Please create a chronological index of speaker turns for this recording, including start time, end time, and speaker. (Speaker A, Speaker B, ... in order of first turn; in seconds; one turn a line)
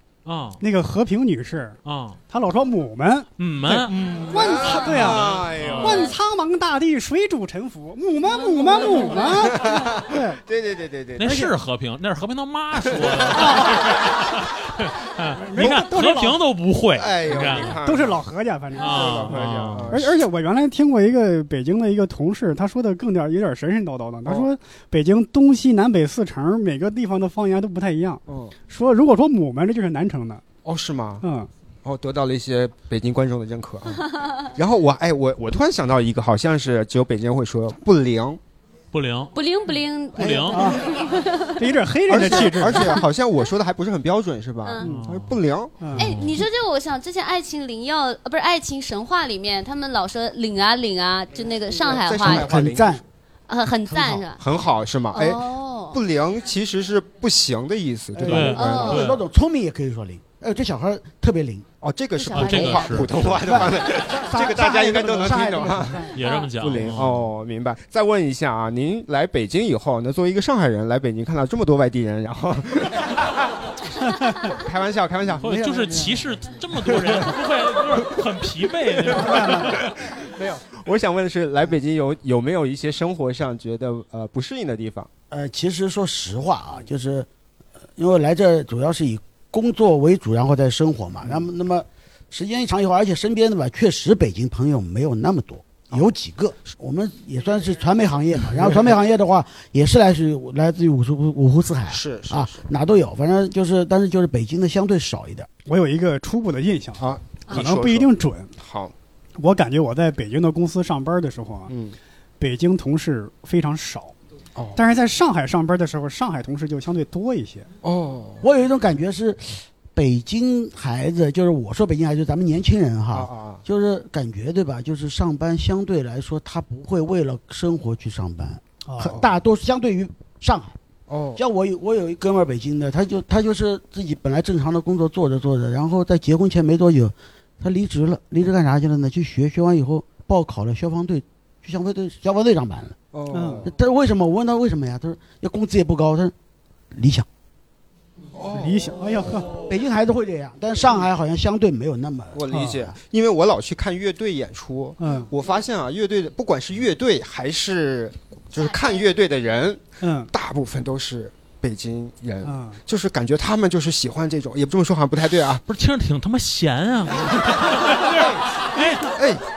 Speaker A: 0.2-0.6
Speaker B: 0.6-10.4
Speaker A: 1.9-2.2
Speaker A: 3.4-4.0
Speaker C: 3.9-6.1
Speaker D: 4.6-4.9
Speaker A: 5.6-6.1
Speaker D: 8.4-9.2
Speaker C: 9.1-11.4
Speaker A: 11.2-17.8
Speaker B: 11.2-11.5
Speaker C: 12.9-13.3
Speaker B: 13.3-13.8
Speaker B: 15.4-16.4
Speaker C: 17.0-18.2
Speaker B: 17.6-30.4
Speaker A: 18.8-19.9
Speaker C: 18.8-20.1
Speaker C: 28.3-28.5
Speaker C: 30.6-31.2
Speaker B: 31.2-31.5
Speaker C: 31.8-38.4
Speaker A: 38.9-39.3
Speaker D: 39.3-41.6
Speaker A: 40.2-40.6
Speaker C: 40.2-40.5
Speaker B: 40.5-40.9
Speaker B: 41.6-43.0
Speaker C: 42.1-45.8
Speaker A: 44.8-45.4
Speaker B: 45.8-46.1
Speaker A: 46.0-46.4
Speaker D: 46.0-52.5
Speaker C: 51.9-53.0
Speaker E: 52.2-53.0
Speaker D: 53.5-54.4
Speaker C: 53.9-59.0
Speaker D: 55.1-56.0
Speaker E: 58.1-61.7
Speaker A: 58.2-59.2
Speaker D: 58.5-59.1
Speaker C: 61.8-73.1
Speaker D: 62.2-63.0
Speaker A: 62.3-63.5
Speaker E: 63.2-66.2
Speaker A: 66.1-67.2
Speaker D: 66.2-66.5
Speaker C: 74.5-75.5
Speaker A: 75.4-79.8
Speaker E: 75.4-76.2
Speaker B: 79.2-79.7
Speaker C: 79.6-79.8
Speaker C: 80.6-85.1
Speaker E: 85.3-87.3
Speaker E: 88.0-105.5
Speaker C: 101.9-102.7
Speaker B: 105.7-108.5
Speaker C: 107.0-108.9
Speaker B: 109.4-111.7
Speaker C: 111.7-112.0
Speaker B: 112.4-114.2
Speaker B: 114.8-117.7
Speaker C: 117.8-118.4
Speaker E: 118.4-130.8
Speaker C: 123.1-123.6
Speaker B: 128.8-129.2
Speaker C: 131.1-131.4
Speaker E: 131.4-143.0
Speaker C: 143.1-143.7
Speaker B: 143.3-143.7
Speaker E: 143.6-146.3
Speaker E: 146.9-147.3
Speaker C: 148.3-148.9
Speaker B: 148.5-149.6
Speaker E: 149.6-153.0
Speaker C: 152.3-165.6
Speaker B: 155.0-155.3
Speaker B: 160.0-160.3
Speaker B: 162.4-162.8
Speaker A: 165.7-169.2
Speaker C: 169.1-169.4